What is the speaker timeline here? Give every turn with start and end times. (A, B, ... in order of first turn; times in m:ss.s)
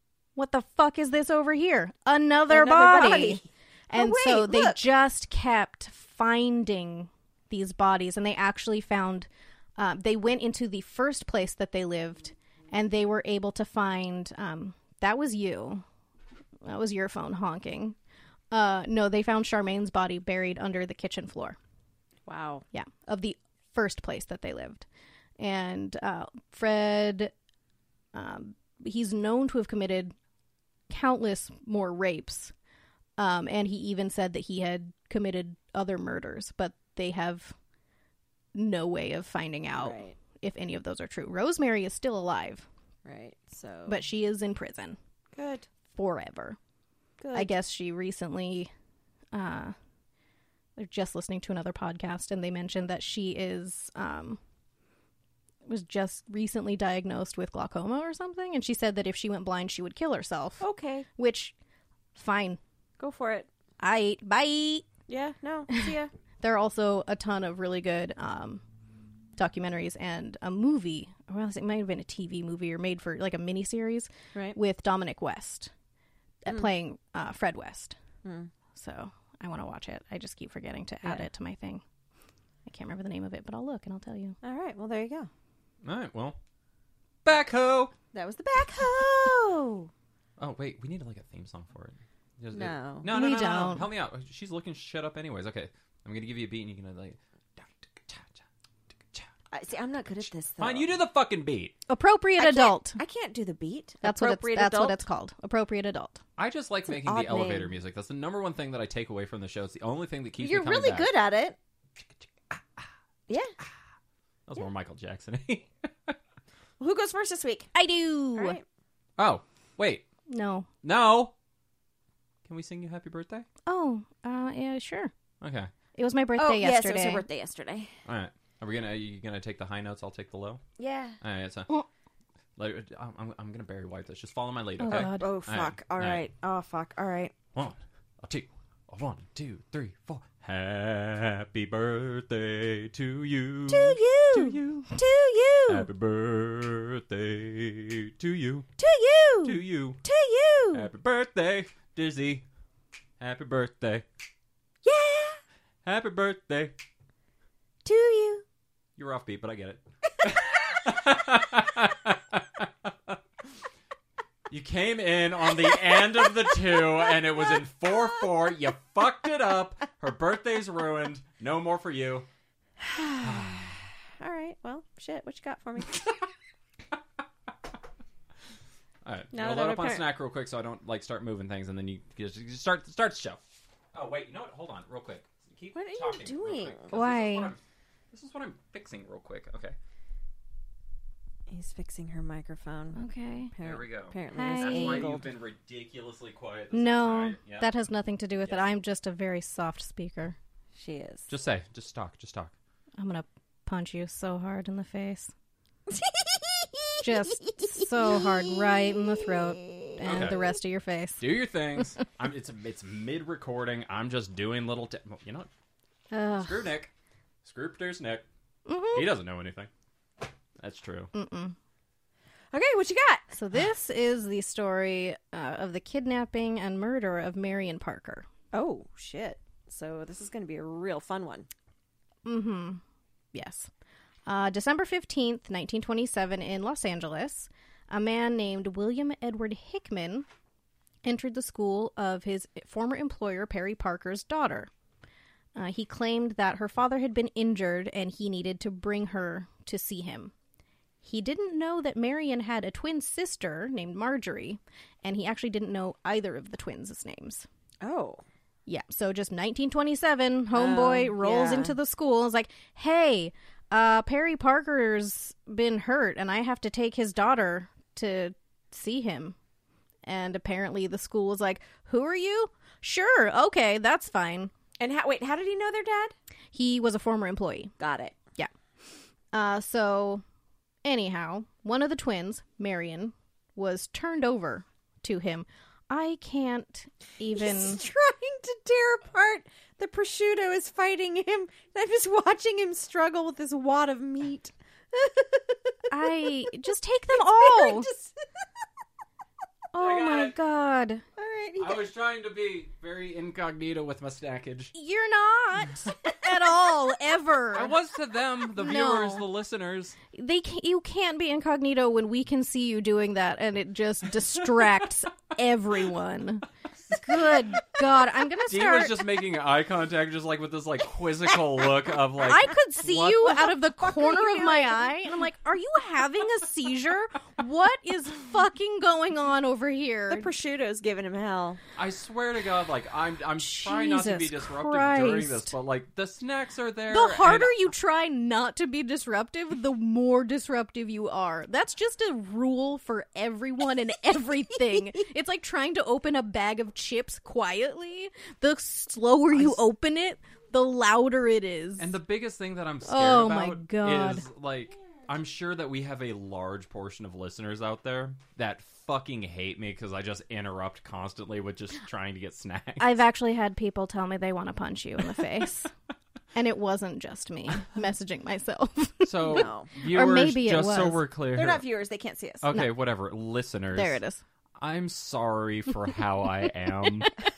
0:00.4-0:15.8 A
0:02.5-0:04.8 B
0:16.6-0:17.9 A
0:18.5-0:21.6 A
0:22.2-0:22.6 B
0:22.7-0:24.8 A
0:25.4-0:27.3 A
0:28.1-0:30.1 A
0:30.9-0:32.5 A
0:33.2-0:37.5 A
0:38.5-0:42.6 A
0:39.7-0:40.2 B
0:43.0-0:44.0 B
0:43.9-0:45.0 A
0:45.3-0:45.7 B
0:45.9-0:46.6 A
0:47.2-0:47.5 B
0:47.3-0:48.7 A
0:49.3-0:49.7 A
0:50.8-0:54.4 A
0:55.6-1:00.6 A
1:00.6-1:01.0 B
1:01.2-1:01.5 A
1:02.1-1:02.6 A
1:03.0-1:03.5 B
1:03.8-1:04.8 A
1:05.1-1:06.1 B
1:05.7-1:08.6 A
1:09.4-1:15.7 A
1:16.4-1:18.0 A
1:18.2-1:18.5 B
1:18.7-1:21.8 A
1:22.6-1:24.4 A
1:24.4-1:25.3 B
1:25.8-1:26.4 C
1:27.2-1:27.9 C
1:28.1-1:29.9 B
1:30.4-1:38.4 C
1:32.5-1:33.1 B
1:33.1-1:33.9 A
1:39.5-1:40.9 B
1:40.6-1:41.7 C
1:41.9-1:43.0 A
1:42.4-1:45.0 B
1:44.0-1:46.2 A
1:46.4-1:51.1 C
1:46.9-1:47.7 B
1:50.4-1:51.6 B
1:52.5-1:52.8 C
1:54.5-1:56.2 C
1:56.8-1:57.7 B
1:57.7-1:58.6 A
1:58.4-1:58.6 B
1:59.2-2:00.0 C
2:00.3-2:00.7 A
2:00.8-2:01.3 C
2:02.4-2:03.4 C
2:03.6-2:05.1 A
2:05.4-2:05.7 C
2:05.9-2:07.2 A
2:06.4-2:07.9 B
2:08.0-2:10.6 C
2:10.8-2:11.2 B
2:11.2-2:11.8 C
2:12.6-2:16.2 C
2:14.8-2:15.4 A
2:14.9-2:17.3 B
2:17.5-2:24.9 C
2:23.7-2:25.9 B
2:25.7-2:28.7 C
2:28.8-2:30.9 B
2:29.4-2:30.0 C
2:30.7-2:32.4 C
2:33.2-2:34.0 C
2:34.8-2:35.4 B
2:35.8-2:36.7 C
2:37.8-2:38.4 B
2:39.0-2:43.2 C
2:44.5-2:52.3 C
2:52.8-2:56.1 B
2:53.2-2:53.8 C
2:59.0-3:03.4 C
2:59.3-3:00.1 B
3:03.9-3:07.6 C
3:05.7-3:06.9 B
3:06.9-3:07.5 A
3:08.1-3:09.8 C
3:11.5-3:13.0 B
3:13.0-3:13.5 A
3:13.5-3:15.3 B
3:13.6-3:17.7 C
3:14.3-3:15.0 A
3:16.7-3:20.4 A
3:20.7-3:21.3 B
3:21.3-3:22.5 C
3:23.0-3:25.3 A
3:25.9-3:30.4 B
3:27.0-3:31.2 A
3:30.0-3:30.4 C
3:31.2-3:35.5 C
3:36.1-3:36.7 A
3:36.4-3:36.9 C
3:37.4-3:38.2 C
3:38.6-3:39.1 A
3:38.9-3:39.7 C
3:40.6-3:41.1 C
3:41.1-3:41.5 A
3:42.5-3:43.3 B
3:43.3-3:48.3 A
3:48.5-3:51.5 B
3:52.2-3:52.8 A
3:53.3-3:53.7 A
3:54.2-4:00.2 A
4:01.0-4:04.7 A
4:05.5-4:10.3 A
4:11.0-4:17.5 A
4:17.8-4:18.2 B
4:18.7-4:29.3 A
4:20.5-4:21.8 B
4:30.0-4:34.5 A
4:34.8-4:36.2 B
4:36.5-4:37.7 A
4:37.8-4:38.2 B
4:39.3-4:40.2 A
4:40.8-4:47.8 A
4:47.3-4:56.5 B
4:55.9-4:57.9 A
4:57.1-4:58.2 B
4:59.7-5:01.0 A
4:59.8-5:00.4 C
5:01.2-5:01.8 B
5:01.6-5:04.7 C
5:04.7-5:07.7 A
5:07.5-5:10.0 C
5:08.5-5:09.2 A
5:10.1-5:19.0 A
5:18.5-5:23.3 C
5:22.2-5:30.3 A
5:23.2-5:24.9 B
5:30.1-5:31.6 B
5:31.8-5:37.6 C
5:33.4-5:35.5 A
5:36.9-5:52.0 A
5:51.8-6:03.0 C
5:52.8-5:54.2 A
6:02.8-6:05.7 A
6:06.3-6:11.1 A
6:09.0-6:11.6 C
6:09.3-6:09.7 B
6:11.3-6:12.4 B
6:12.4-6:14.0 C
6:13.7-6:14.2 A
6:14.6-6:17.1 C